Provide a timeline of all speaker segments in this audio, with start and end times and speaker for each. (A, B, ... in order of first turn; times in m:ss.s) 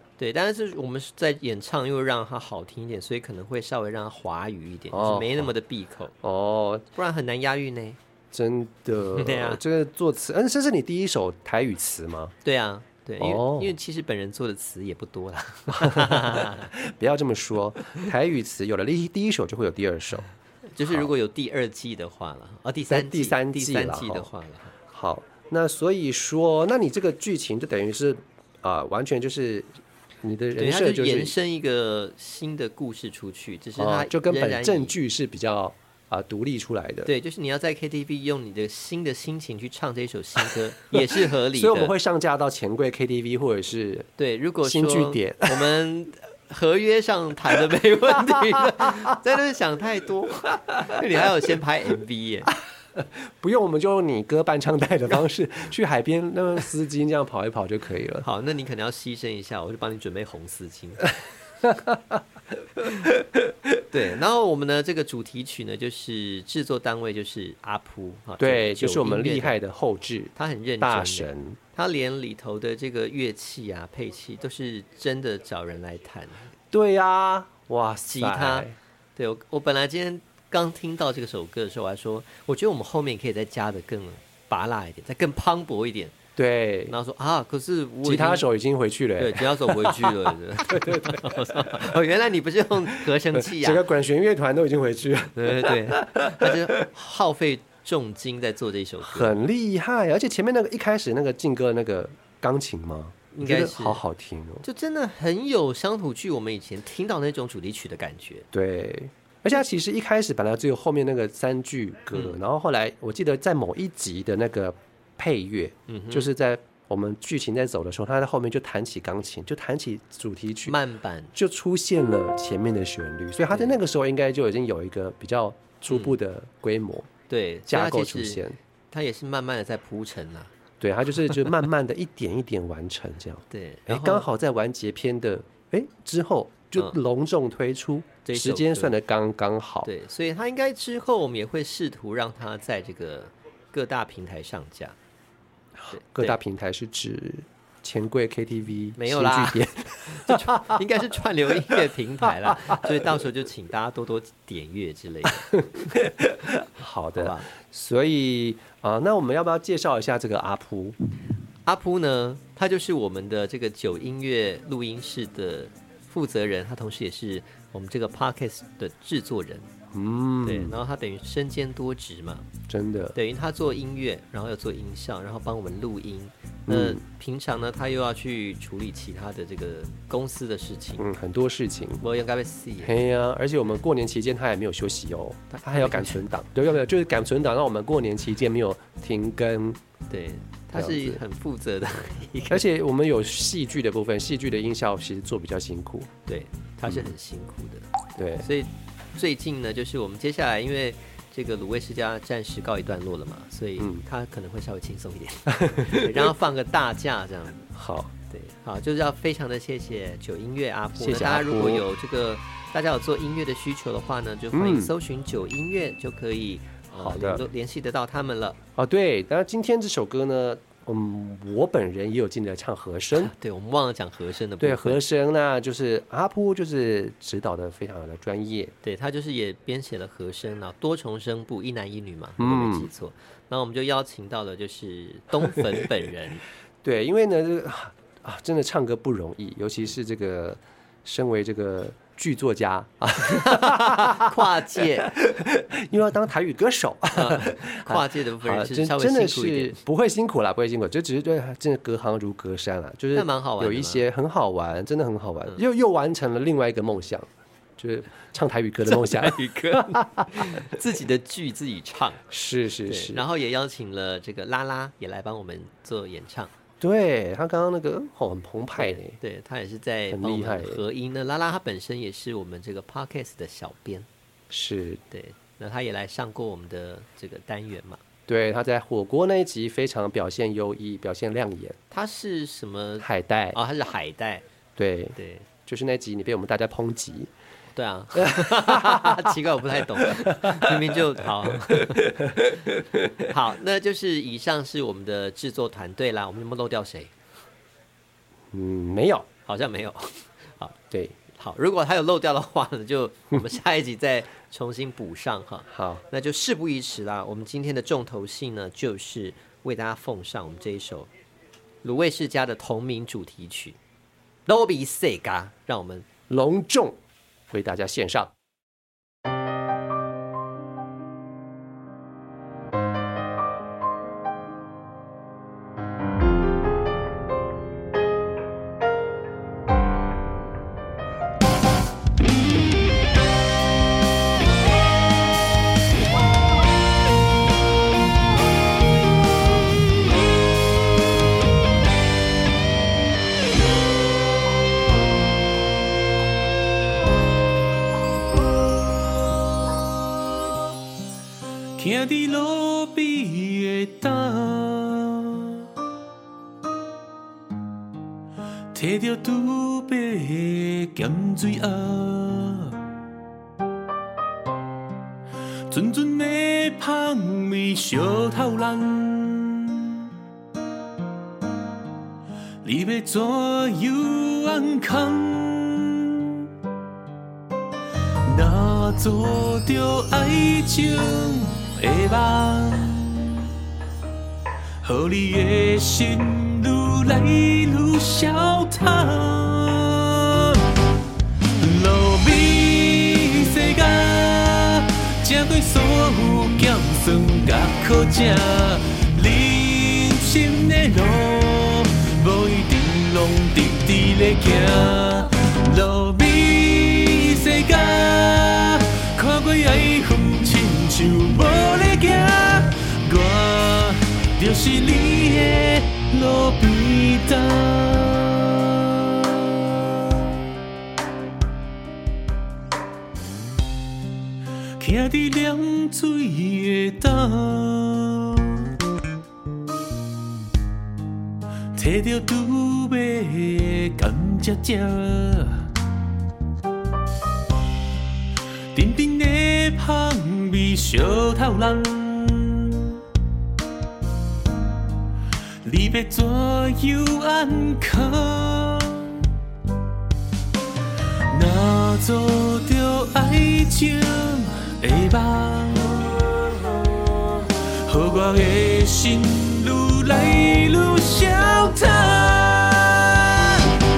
0:00.2-0:06.1 A
0:04.9-0:05.5 B
0:06.2-0:06.8 B
0:06.9-0:08.0 A
0:08.3-0:12.3 B
0:09.1-0:09.6 A
0:12.4-0:16.7 A
0:13.2-0:13.7 B
0:15.7-0:20.3 B
0:20.7-0:24.7 A
0:20.8-0:21.1 B
0:22.9-0:24.3 B
0:24.9-0:29.7 B
0:30.2-0:31.3 B
0:30.6-0:34.9 A
0:33.8-0:37.1 B
0:37.0-0:41.9 A
0:40.9-0:44.1 B
0:44.2-0:52.5 A
0:44.6-0:45.8 B
0:48.3-0:49.1 B
0:52.9-0:58.2 B
0:58.2-1:01.1 A
1:01.6-1:02.2 B
1:03.9-1:09.6 A
1:08.4-1:11.6 B
1:10.4-1:16.5 A
1:16.7-1:18.7 B
1:18.1-1:26.1 A
1:26.4-1:26.9 B
1:26.9-1:28.4 A
1:28.0-1:32.0 B
1:29.2-1:33.8 A
1:32.8-1:36.8 B
1:35.4-1:39.4 A
1:39.0-1:44.6 B
1:43.3-1:44.0 A
1:44.6-1:48.4 A
1:48.5-2:00.8 B
1:52.1-1:52.4 A
1:55.9-1:56.3 A
2:00.7-2:01.3 A
2:01.3-2:07.1 B
2:03.5-2:03.8 A
2:05.9-2:06.2 A
2:07.3-2:10.5 A
2:07.7-2:08.6 B
2:10.8-2:19.9 B
2:13.5-2:14.3 A
2:18.2-2:18.9 A
2:19.8-2:25.0 A
2:25.8-2:31.0 B
2:25.9-2:26.4 A
2:29.0-2:35.5 A
2:31.6-2:33.1 B
2:35.5-2:41.0 B
2:37.2-2:37.5 A
2:41.6-2:49.7 A
2:49.9-2:50.8 B
2:50.4-2:52.4 A
2:52.7-2:53.2 B
2:53.1-3:01.0 A
2:56.7-2:57.0 B
3:01.0-3:02.0 B
3:02.0-3:02.9 A
3:02.8-3:09.8 B
3:05.5-3:06.2 A
3:10.1-3:12.6 A
3:10.7-3:11.2 B
3:12.5-3:16.1 B
3:16.2-3:17.8 A
3:16.9-3:17.1 B
3:18.2-3:18.5 B
3:18.4-3:27.7 A
3:23.8-3:24.0 B
3:25.5-3:26.3 B
3:27.7-3:28.1 B
3:28.3-3:38.6 A
3:31.0-3:31.8 B
3:34.5-3:34.9 B
3:36.9-3:37.4 B
3:38.8-3:43.3 B
3:43.1-3:45.0 A
3:44.6-3:48.7 B
3:48.8-3:56.4 A
3:52.4-3:52.9 B
3:56.8-4:20.8 B
4:03.2-4:05.1 A
4:07.1-4:09.8 A
4:13.1-4:14.0 A
4:18.8-4:22.2 A
4:22.3-4:23.2 B
4:22.8-4:26.5 A
4:26.8-4:29.2 B
4:28.8-4:34.1 A
4:30.1-4:30.8 B
4:34.5-4:35.0 B
4:35.1-4:38.0 A
4:38.3-4:41.8 B
4:41.9-4:44.4 A
4:43.0-4:43.6 B
4:44.8-4:47.3 B
4:45.2-4:45.5 A
4:47.8-4:52.5 A
4:48.1-4:49.4 B
4:49.9-4:53.3 B
4:53.2-4:57.1 A
4:58.5-4:59.3 B
4:59.4-5:00.8 A
5:00.9-5:01.2 B
5:01.4-5:11.1 A
5:05.7-5:06.0 B
5:11.8-5:13.8 A
5:14.5-5:16.0 A
5:16.3-5:17.0 B
5:17.5-5:18.3 B
5:51.8-5:55.6 C
5:58.7-6:02.9 C
6:05.7-6:10.1 C
6:12.6-6:16.5 C
6:18.2-6:23.5 C
6:24.8-6:30.6 C
6:31.6-6:59.3 C
7:04.8-7:08.7 C
7:11.8-7:15.7 C
7:18.7-7:23.0 C
7:25.6-7:29.3 C
7:31.3-7:43.8 C